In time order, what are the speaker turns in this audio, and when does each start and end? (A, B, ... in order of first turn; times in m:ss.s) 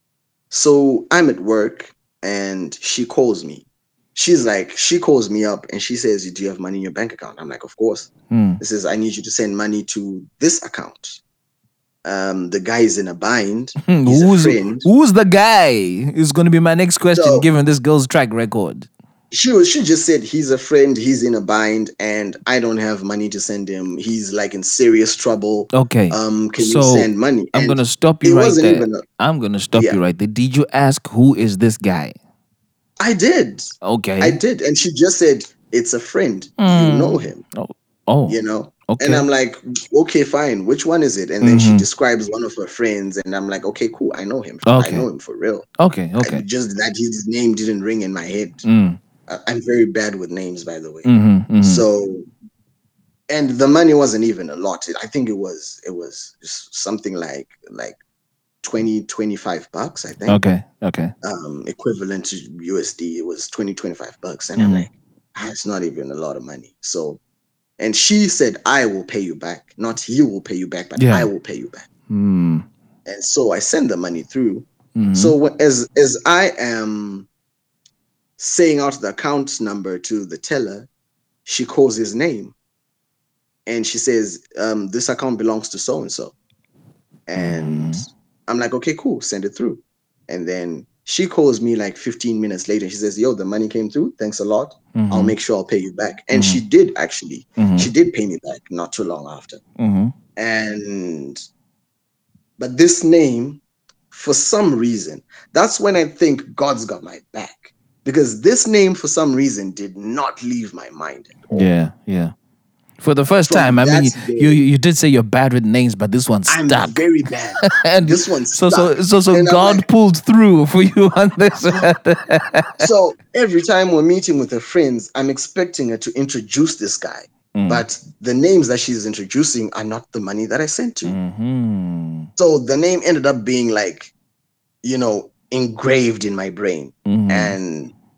0:00.5-0:11.2 A
0:08.3-0:08.6 B
0:12.0-0:14.9 A
0:13.8-0:18.9 B
0:17.1-0:17.5 A
0:19.3-0:29.0 A
0:25.7-0:32.2 B
0:33.0-0:37.4 A
0:33.8-0:34.4 B
0:36.6-0:39.2 B
0:38.3-0:45.7 A
0:41.4-0:41.9 B
0:44.6-0:45.1 B
0:45.8-0:46.4 B
0:46.2-0:48.6 A
0:48.6-0:49.0 B
0:49.3-0:51.1 A
0:51.0-0:51.9 B
0:51.6-0:52.3 A
0:53.3-0:58.0 A
0:58.6-1:00.4 A
1:00.3-1:01.1 B
1:01.2-1:07.2 A
1:04.6-1:04.9 B
1:07.8-1:11.9 A
1:11.0-1:11.3 B
1:12.1-1:12.7 B
1:13.0-1:17.3 A
1:15.0-1:15.4 B
1:18.4-1:20.9 A
1:21.5-1:22.5 A
1:23.7-1:26.3 A
1:27.3-1:39.6 A
1:27.4-1:28.1 B
1:35.0-1:35.4 B
1:36.3-1:36.6 B
1:37.6-1:37.9 B
1:39.8-1:40.1 B
1:40.4-1:41.4 A
1:42.6-1:51.7 A
1:51.5-1:52.3 B
1:53.0-1:57.0 B
1:53.4-1:54.6 A
1:56.5-1:59.9 A
1:57.6-2:02.8 B
2:01.7-2:01.9 A
2:02.8-2:11.2 A
2:07.6-2:07.8 B
2:11.0-2:12.3 B
2:12.4-2:14.1 A
2:14.8-2:17.9 A
2:17.1-2:17.6 B